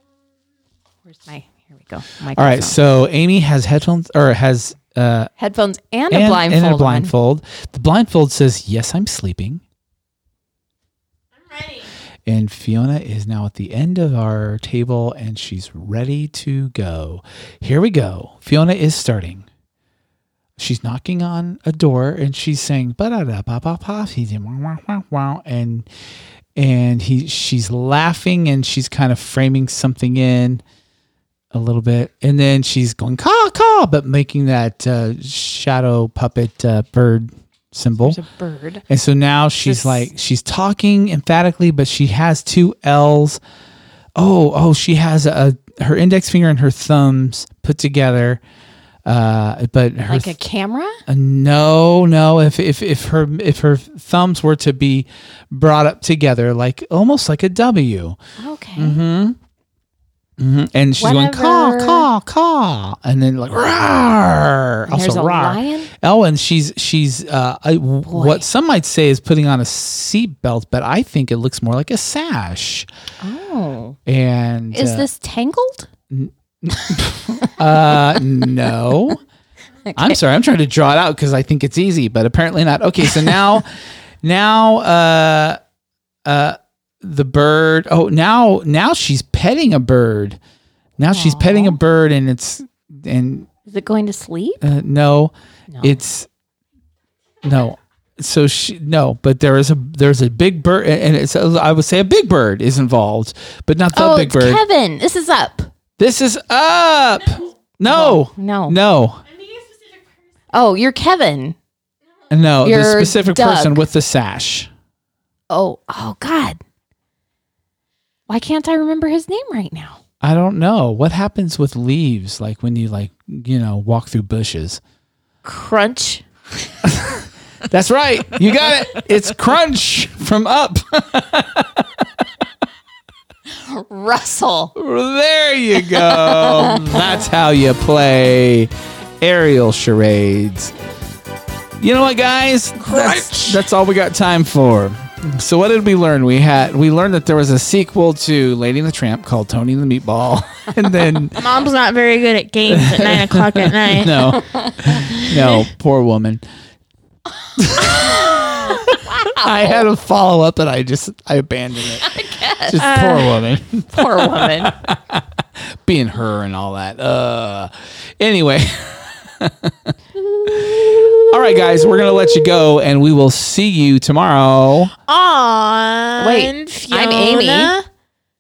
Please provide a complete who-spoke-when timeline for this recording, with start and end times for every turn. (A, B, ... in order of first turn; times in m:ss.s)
0:01.1-0:02.8 A
0:02.4-0:05.3 B
0:05.4-0:07.1 A
0:06.1-0:09.6 B
0:11.4-0:11.9 C
0:12.3-0:19.5 B
0:20.6-0:25.9 B
0:26.6-0:30.6 B
0:31.5-0:38.2 B
0:38.0-0:38.8 A
0:38.9-0:43.4 B
0:39.6-0:40.1 A
0:44.2-0:48.4 B
0:49.1-0:50.4 B
0:50.1-0:51.0 A
0:51.1-0:58.2 B
0:58.4-0:59.0 A
0:58.8-0:59.4 B
1:00.4-1:12.9 B
1:01.0-1:02.1 A
1:04.9-1:05.9 A
1:08.1-1:08.5 A
1:13.2-1:14.0 A
1:14.1-1:15.1 B
1:14.7-1:15.9 A
1:16.1-1:19.2 B
1:19.9-1:20.2 A
1:20.0-1:23.7 B
1:24.2-1:25.6 B
1:26.3-1:30.4 B
1:31.0-1:33.5 B
1:31.1-1:31.8 A
1:33.7-1:34.6 A
1:34.6-1:36.3 B
1:35.7-1:36.0 A
1:37.4-1:44.6 B
1:43.9-1:45.7 A
1:46.0-1:49.2 B
1:47.8-1:48.8 A
1:49.3-1:50.1 C
1:50.5-1:51.6 A
1:52.3-1:54.7 B
1:52.6-1:53.8 A
1:55.5-1:56.6 A
1:58.3-2:00.0 A
2:00.2-2:04.8 B
2:05.4-2:06.2 A
2:06.8-2:07.2 B
2:07.7-2:11.9 B
2:13.5-2:14.7 A
2:14.8-2:20.7 B
2:15.8-2:17.2 A
2:21.8-2:31.5 B
2:22.9-2:23.4 A
2:23.1-2:23.6 C
2:31.4-2:34.3 C
2:32.7-2:36.4 B
2:34.2-2:35.0 A
2:35.0-2:35.6 C
2:37.6-2:42.1 B
2:37.8-2:39.9 A
2:42.0-2:42.9 A
2:42.6-2:45.2 B
2:42.8-2:43.4 C
2:43.9-2:44.7 A
2:45.8-2:49.9 B
2:50.5-2:54.9 B
2:55.1-2:57.8 C
2:56.2-2:57.8 A